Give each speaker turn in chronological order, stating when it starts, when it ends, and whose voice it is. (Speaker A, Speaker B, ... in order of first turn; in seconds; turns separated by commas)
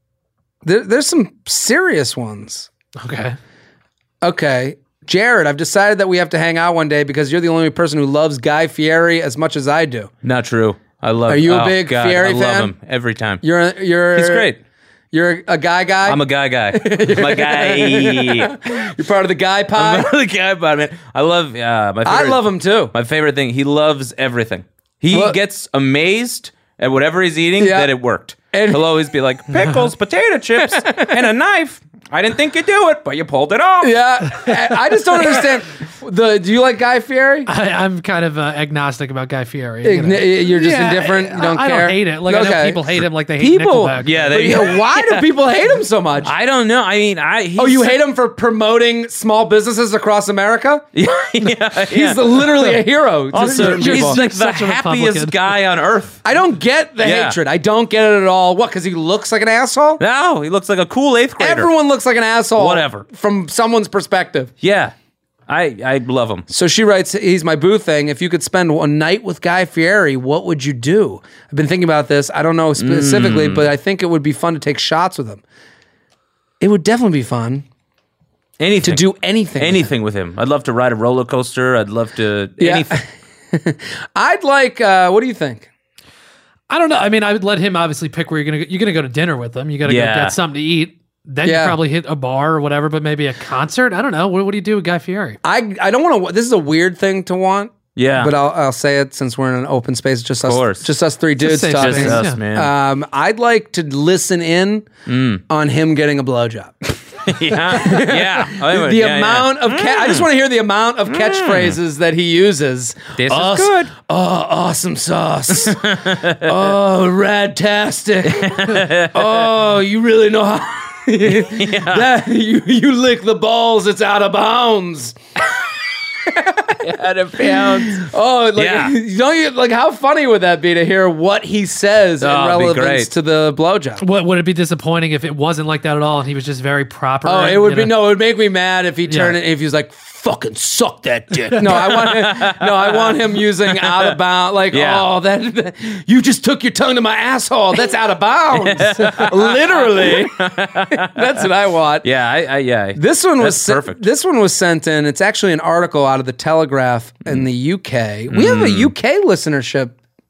Speaker A: 0.6-2.7, Speaker B: 3.0-3.4, Speaker A: 4.2-10.1, Speaker C: 10.2-13.4, Speaker A: 11.3-12.7, Speaker A: 13.4-14.5, Speaker C: 14.1-14.6, Speaker A: 15.1-20.1, Speaker C: 16.0-18.6, Speaker C: 19.7-34.0, Speaker A: 22.0-22.9, Speaker A: 25.1-25.4, Speaker A: 27.6-27.9, Speaker A: 28.5-28.8, Speaker A: 30.6-31.1, Speaker A: 33.8-37.5, Speaker B: 37.5-44.6, Speaker A: 39.8-42.8, Speaker A: 43.4-46.3, Speaker C: 44.0-45.3, Speaker C: 46.2-48.0, Speaker A: 47.6-50.9, Speaker C: 50.9-56.2, Speaker A: 51.8-54.2, Speaker B: 53.4-55.4, Speaker A: 56.2-60.0, Speaker C: 57.0-57.4, Speaker C: 60.0-61.7, Speaker A: 61.4-64.5, Speaker C: 62.6-63.0, Speaker C: 64.6-65.0, Speaker C: 65.5-66.5, Speaker A: 66.5-75.4, Speaker C: 72.8-73.7, Speaker A: 76.6-77.7, Speaker C: 78.6-79.0, Speaker A: 78.8-79.9, Speaker C: 79.6-83.0, Speaker A: 82.6-85.7, Speaker B: 86.7-95.4, Speaker C: 89.8-90.4, Speaker A: 91.5-91.8, Speaker A: 95.4-104.9, Speaker C: 98.0-98.3, Speaker C: 100.4-100.9, Speaker B: 101.4-102.4, Speaker C: 101.8-102.7, Speaker C: 105.1-105.4, Speaker A: 105.5-106.8, Speaker C: 107.2-110.3, Speaker A: 107.5-125.2, Speaker C: 111.1-111.8, Speaker C: 113.2-113.9, Speaker C: 115.5-116.6, Speaker C: 118.3-119.5, Speaker C: 121.2-122.1, Speaker A: 126.3-126.8, Speaker C: 126.8-129.0, Speaker A: 127.4-134.0, Speaker C: 132.2-133.1, Speaker B: 134.0-138.0, Speaker A: 137.2-152.1, Speaker B: 139.1-139.4, Speaker C: 141.6-144.2, Speaker C: 144.7-145.1, Speaker C: 148.5-151.4, Speaker C: 152.0-154.0, Speaker A: 153.0-159.9, Speaker C: 158.3-158.9